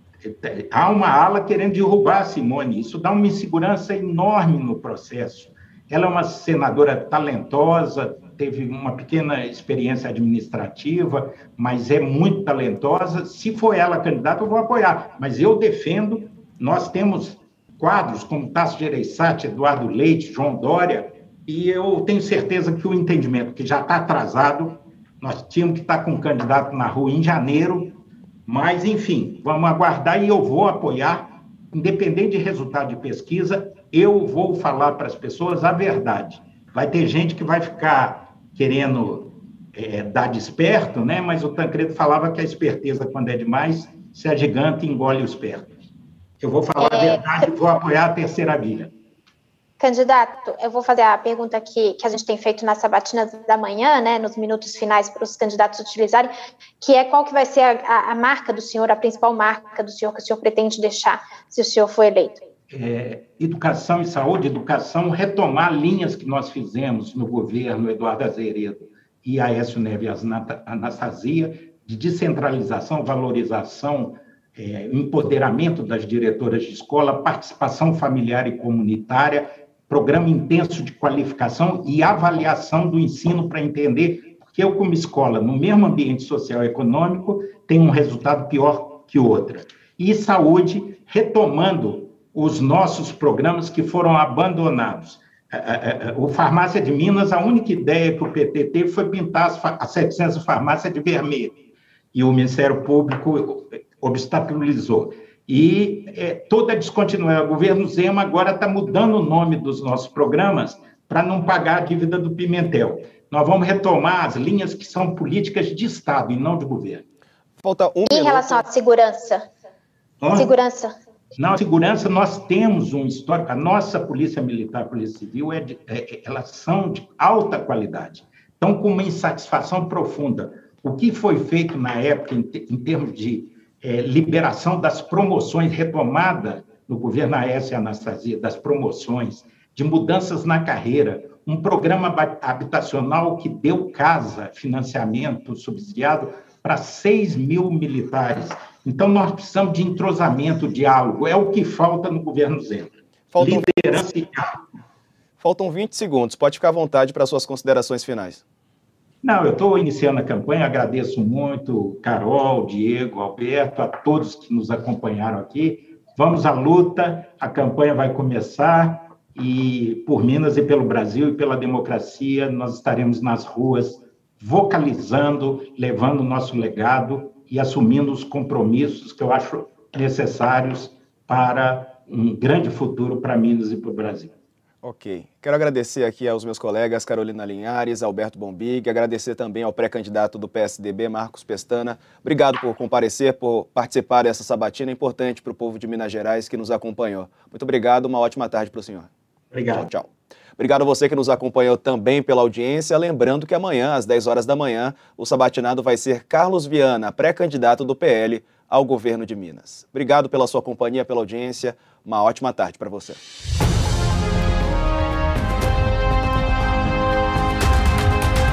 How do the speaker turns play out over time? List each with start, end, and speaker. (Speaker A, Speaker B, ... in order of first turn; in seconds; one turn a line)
Speaker A: 0.2-45.7
Speaker A: 46.4-48.9
Speaker B: 46.8-47.5
Speaker B: 49.8-62.4
Speaker A: 62.7-101.6
Speaker A: 102.1-117.0
Speaker C: 117.6-118.6
Speaker B: 118.1-119.5
Speaker A: 120.2-120.5
Speaker B: 120.3-121.0
Speaker A: 121.4-154.5
Speaker C: 153.3-153.8
Speaker C: 155.4-158.4
Speaker A: 159.2-184.3
Speaker C: 184.8-199.1
Speaker A: 199.5-199.9
Speaker C: 199.7-213.2